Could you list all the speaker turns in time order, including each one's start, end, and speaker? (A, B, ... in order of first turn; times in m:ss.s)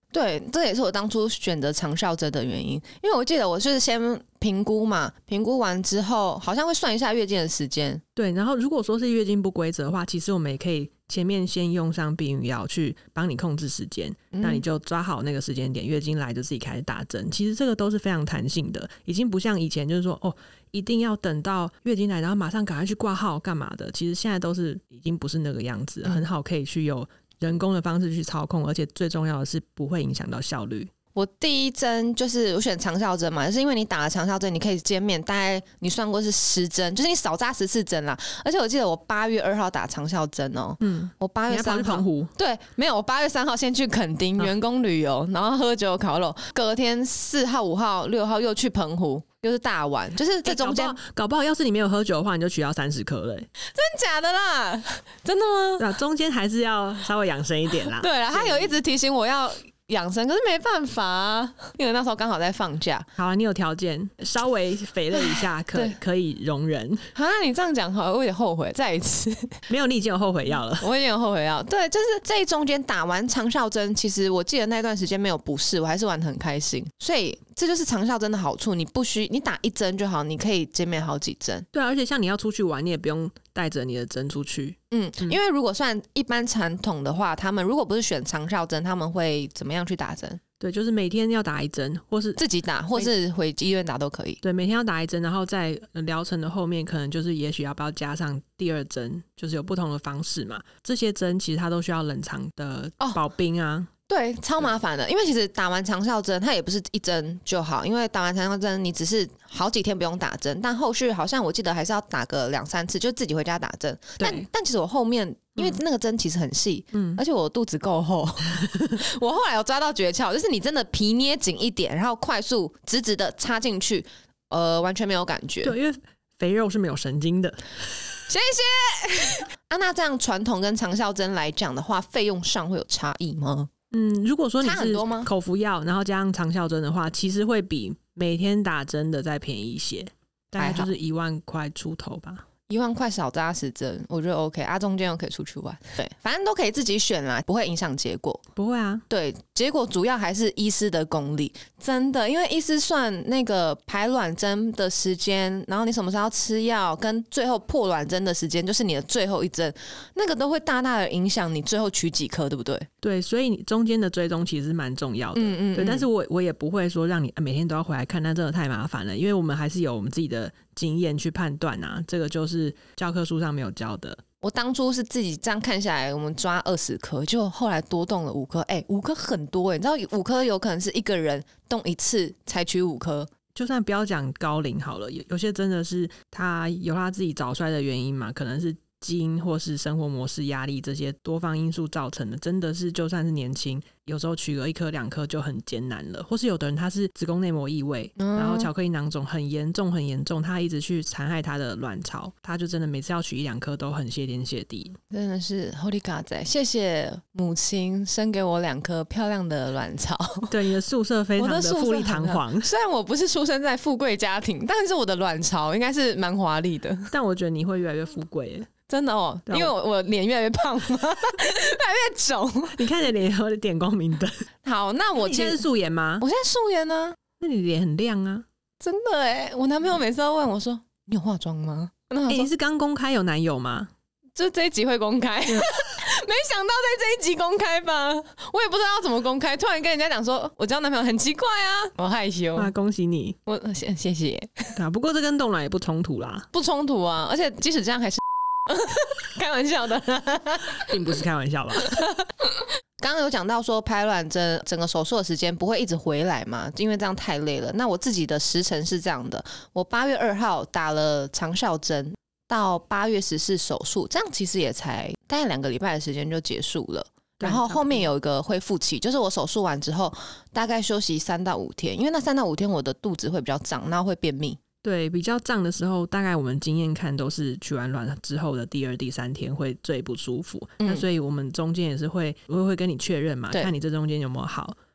0:00.1-0:08.0 A
0:08.2-0:30.9 B
0:14.3-0:14.6 A
0:31.1-0:51.0 A
0:40.8-0:42.3 B
0:50.4-0:53.5 B
0:53.6-0:55.9 A
0:55.8-0:58.7 B
0:58.0-1:03.1 A
1:03.2-1:07.0 B
1:05.1-1:06.0 A
1:07.1-1:09.6 A
1:09.7-1:10.9 B
1:10.8-1:21.7 A
1:21.7-1:25.4 B
1:24.9-1:30.4 A
1:30.6-1:32.4 B
1:32.4-1:34.4 A
1:34.4-1:43.9 B
1:44.1-2:05.7 A
1:54.2-1:54.4 B
1:56.9-1:57.2 B
2:05.6-2:08.2 B
2:08.3-2:13.7 A
2:13.9-2:22.4 B
2:14.6-2:15.3 A
2:20.6-2:20.9 A
2:22.7-2:28.4 A
2:28.6-2:29.0 B
2:29.1-2:42.9 A
2:43.0-2:54.2 B
2:45.3-2:46.1 A
2:54.4-3:03.3 A
3:03.5-3:25.0 B
3:18.2-3:18.7 A
3:25.1-3:30.5 A
3:30.5-3:32.7 B
3:31.4-3:37.1 A
3:37.1-3:38.7 B
3:38.9-3:42.8 A
3:42.7-3:44.4 B
3:44.6-3:45.6 A
3:45.2-3:46.2 B
3:46.2-3:47.2 A
3:47.4-3:48.4 B
3:48.8-3:52.5 A
3:52.3-3:53.9 B
3:54.4-4:02.7 A
4:02.6-4:03.4 B
4:03.4-4:04.8 A
4:04.8-4:06.5 B
4:06.5-4:10.9 A
4:10.8-4:12.0 B
4:11.8-4:12.5 A
4:13.0-4:34.6 A
4:27.4-4:28.1 B
4:34.8-4:44.8 B